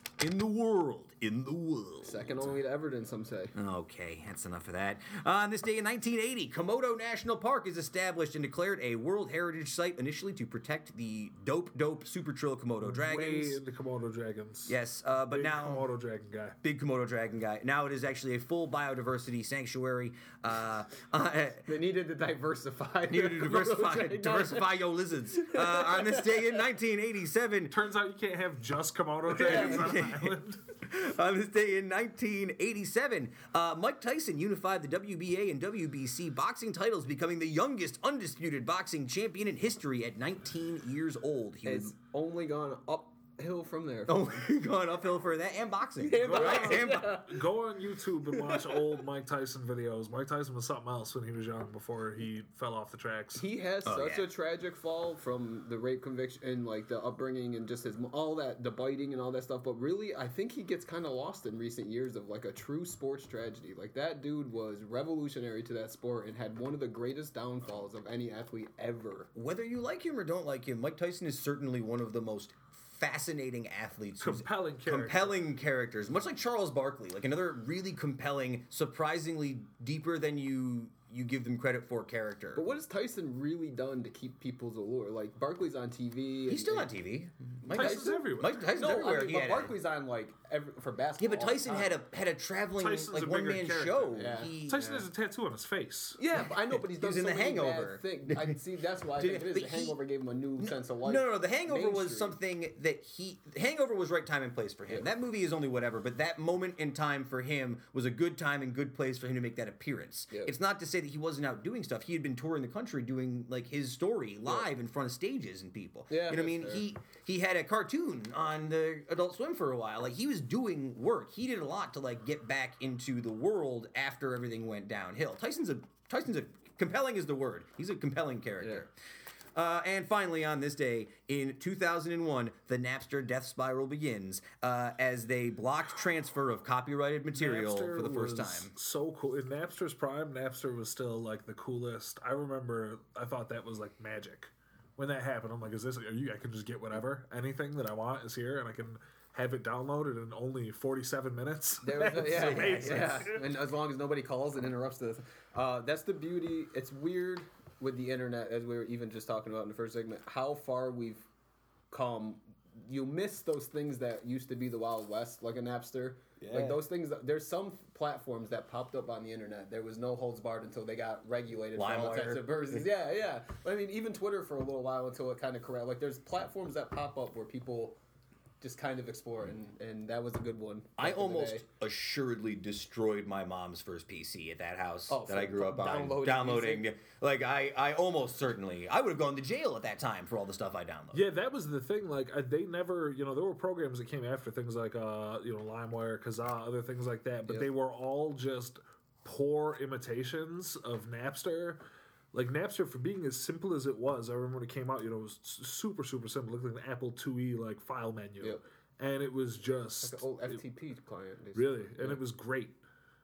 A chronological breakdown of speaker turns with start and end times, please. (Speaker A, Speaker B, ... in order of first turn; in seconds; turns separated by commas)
Speaker A: 0.2-2.5, Speaker B: 2.0-3.5, Speaker A: 3.5-13.6, Speaker C: 12.8-14.8, Speaker A: 14.7-15.9, Speaker C: 15.3-16.6, Speaker A: 16.6-21.7, Speaker B: 21.7-26.7, Speaker A: 23.1-27.7, Speaker C: 27.7-30.6, Speaker B: 29.3-29.9, Speaker A: 29.5-41.9, Speaker B: 41.6-44.5, Speaker A: 44.1-47.3, Speaker B: 46.0-47.5, Speaker C: 46.2-53.5, Speaker B: 48.3-49.0, Speaker B: 53.4-69.3, Speaker A: 53.9-54.3, Speaker A: 69.3-82.7, Speaker C: 74.2-75.4, Speaker B: 82.5-86.9, Speaker A: 86.5-89.8, Speaker C: 87.7-88.7, Speaker B: 87.7-88.1, Speaker B: 88.7-91.9, Speaker A: 91.2-95.0, Speaker C: 92.8-96.2, Speaker B: 94.2-94.5, Speaker B: 96.2-102.4, Speaker A: 96.7-98.6, Speaker A: 99.2-100.0, Speaker A: 100.6-128.9, Speaker B: 116.1-116.9, Speaker B: 128.6-128.9, Speaker A: 129.6-138.7, Speaker C: 137.3-153.5, Speaker B: 151.8-161.3, Speaker A: 152.2-153.2, Speaker B: 161.9-178.0, Speaker A: 166.4-166.8, Speaker A: 171.8-172.9, Speaker B: 178.6-181.7, Speaker A: 181.0-191.2, Speaker B: 185.1-186.9, Speaker C: 191.1-210.6, Speaker B: 210.0-212.2, Speaker C: 211.5-212.8